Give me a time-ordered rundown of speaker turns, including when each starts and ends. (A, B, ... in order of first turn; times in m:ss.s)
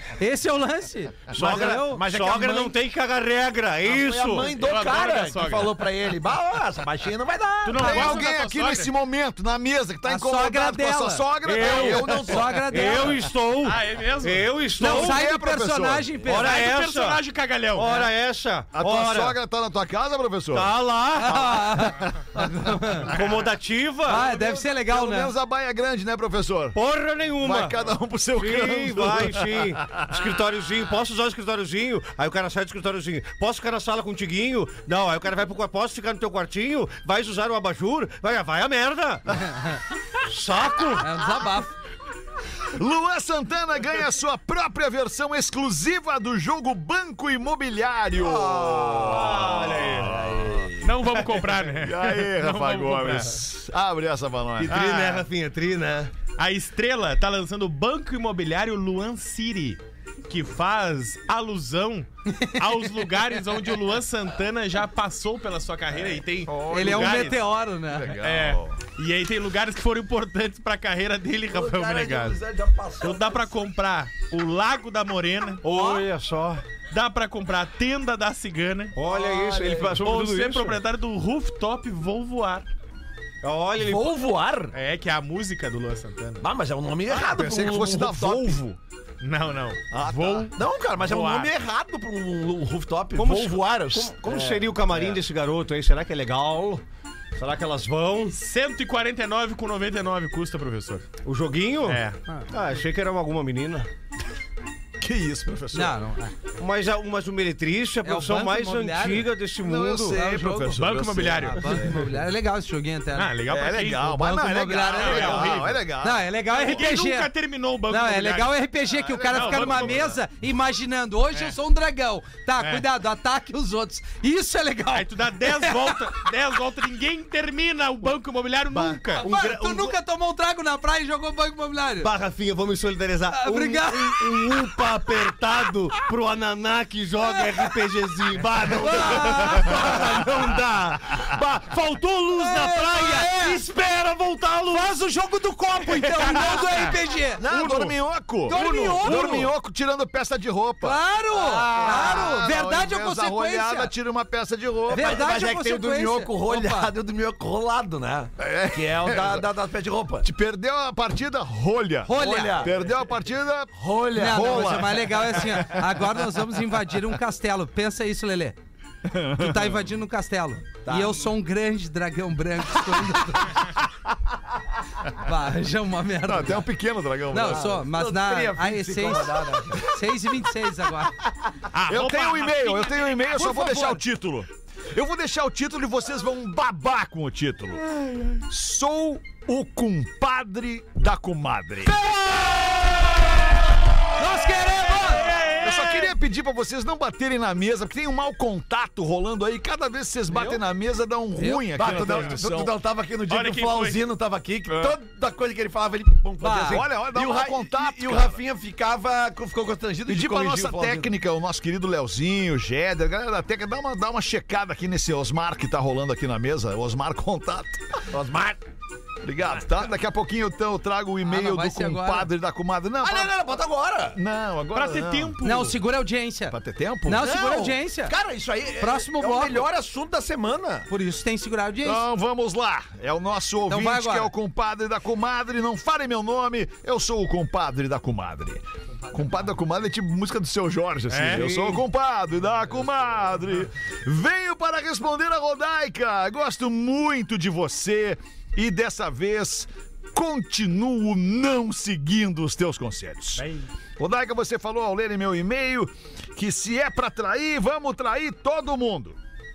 0:00.2-0:02.0 A
0:01.4-0:02.8 B
0:01.4-0:04.6 C
0:03.8-0:08.2 B
0:04.5-0:05.9 D
0:07.6-0:08.9 D
0:07.8-0:13.0 E
0:10.0-0:13.2 A
0:11.4-0:15.2 C
0:11.6-0:12.3 B
0:13.6-0:14.5 D
0:14.8-0:16.6 A
0:14.8-0:16.1 E
0:16.2-0:17.2 C
0:16.3-0:18.0 D
0:17.7-0:19.4 C
0:18.7-0:20.7 E
0:20.5-0:21.4 C
0:21.2-0:23.1 A
0:21.3-0:22.6 E
0:23.1-0:24.2 C
0:24.0-0:25.3 A
0:24.1-0:26.8 E
0:26.7-0:27.7 C
0:27.4-0:30.2 E
0:28.4-0:39.4 C
0:40.2-0:41.2 C
0:41.0-0:41.7 A
0:42.6-0:50.7 E
0:48.1-0:50.9 B
0:49.0-0:50.1 C
0:50.8-0:53.4 D
0:51.7-0:54.8 E
0:54.6-0:56.1 C
0:54.7-0:55.3 D
0:56.4-1:07.4 D
1:02.3-1:02.8 A
1:06.4-1:08.8 E
1:06.7-1:08.1 A
1:08.2-1:12.4 D
1:11.5-1:13.5 B
1:13.0-1:15.8 D
1:15.6-1:16.6 C
1:16.9-1:19.0 D
1:18.9-1:20.8 C
1:19.0-1:20.0 B
1:20.0-1:22.7 D
1:23.4-1:24.7 C
1:23.8-1:24.7 B
1:24.7-1:26.4 D
1:26.4-1:28.6 B
1:27.1-1:28.8 E
1:29.2-1:31.5 D
1:29.9-1:30.5 E
1:30.5-1:35.2 B
1:33.2-1:36.8 C
1:37.4-1:38.4 C
1:38.3-1:41.1 D
1:41.2-1:43.9 C
1:41.9-1:42.2 D
1:45.0-1:46.0 E
1:45.7-1:46.3 A
1:46.6-1:50.2 C
1:48.0-1:49.3 A
1:49.6-1:52.1 E
1:50.1-1:50.8 A
1:50.8-1:51.9 D
1:51.4-1:53.4 A
1:53.1-1:54.2 D
1:53.5-1:56.6 E
1:54.1-1:57.3 A
1:54.9-1:55.8 D
1:56.5-1:58.6 D
1:57.9-2:06.2 A
1:58.9-2:00.2 E
1:59.3-2:00.0 D
2:02.6-2:02.8 D
2:04.9-2:09.2 D
2:09.2-2:09.9 C
2:09.2-2:12.1 A
2:12.0-2:25.0 C
2:13.3-2:14.6 A
2:18.8-2:19.8 A
2:22.3-2:23.6 A
2:24.7-2:27.4 A
2:26.3-2:26.6 C
2:27.4-2:31.0 E
2:27.5-2:27.9 B
2:28.4-2:29.5 A
2:30.8-2:33.9 A
2:31.3-2:32.4 B
2:31.7-2:35.3 E
2:34.9-2:40.3 B
2:34.9-2:36.9 A
2:38.4-2:39.5 E
2:40.2-2:46.2 E
2:42.0-2:42.7 A
2:42.1-2:42.9 B
2:43.7-2:44.8 B
2:44.2-2:48.6 A
2:49.0-2:49.9 E
2:49.3-2:53.6 A
2:50.8-2:51.3 B
2:55.1-2:56.7 A
2:56.2-2:57.8 E
2:57.3-3:01.2 A
2:57.4-2:59.9 B
3:01.7-3:03.3 D
3:01.9-3:07.8 E
3:03.3-3:04.0 A
3:08.4-3:12.0 E
3:14.2-3:15.3 A
3:15.0-3:16.1 D
3:15.6-3:22.7 E
3:21.4-3:21.7 A
3:21.8-3:31.1 B
3:23.3-3:24.0 D
3:24.7-3:25.0 E
3:26.4-3:26.8 A
3:26.6-3:28.4 E
3:30.0-3:38.0 E
3:38.1-3:38.6 B
3:39.2-3:43.4 E
3:41.2-3:42.3 A
3:43.0-3:44.2 B
3:44.1-3:45.4 E
3:44.7-3:45.8 D
3:45.4-3:48.1 A
3:46.5-3:47.3 E
3:47.2-3:50.9 B
3:48.8-3:49.7 A
3:50.9-3:52.0 A
3:51.8-4:13.4 E
3:53.7-3:54.3 A
4:01.1-4:01.8 D
4:13.4-4:13.7 D
4:14.0-4:19.2 E